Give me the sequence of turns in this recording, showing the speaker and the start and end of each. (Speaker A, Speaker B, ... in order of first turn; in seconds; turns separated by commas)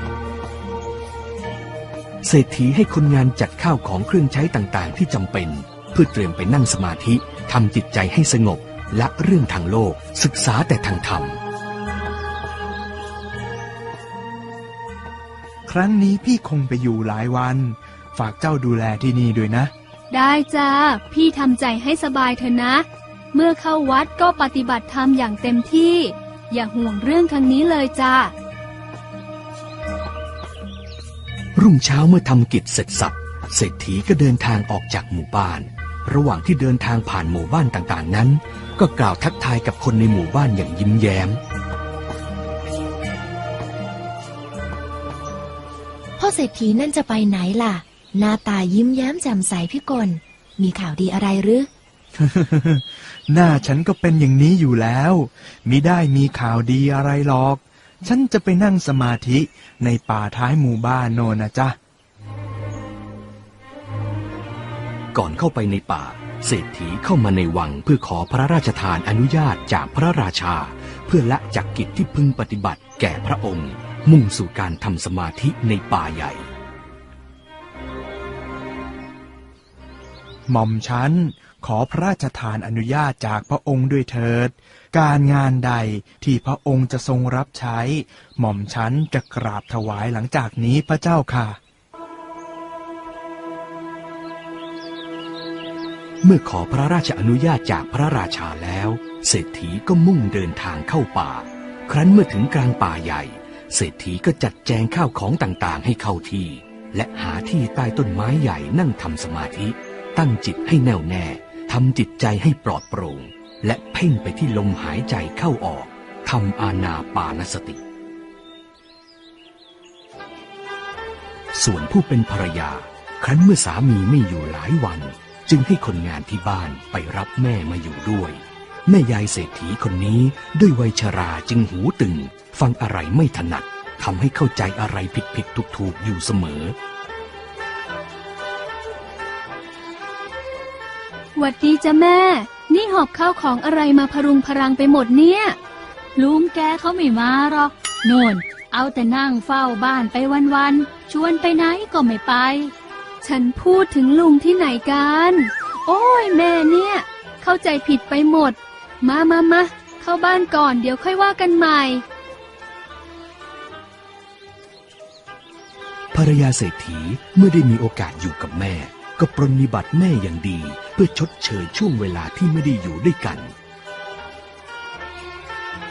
Speaker A: 2.2-11.4, Speaker B: 15.7-19.7, Speaker C: 20.1-28.3, Speaker A: 31.6-41.4, Speaker D: 46.2-51.7, Speaker B: 52.1-61.8, Speaker A: 65.1-76.5, Speaker B: 80.5-91.6, Speaker A: 96.2-117.8, Speaker A: 121.5-136.8, Speaker C: 141.3-145.6, Speaker E: 146.2-152.7, Speaker C: 153.2-162.0, Speaker A: 166.1-173.5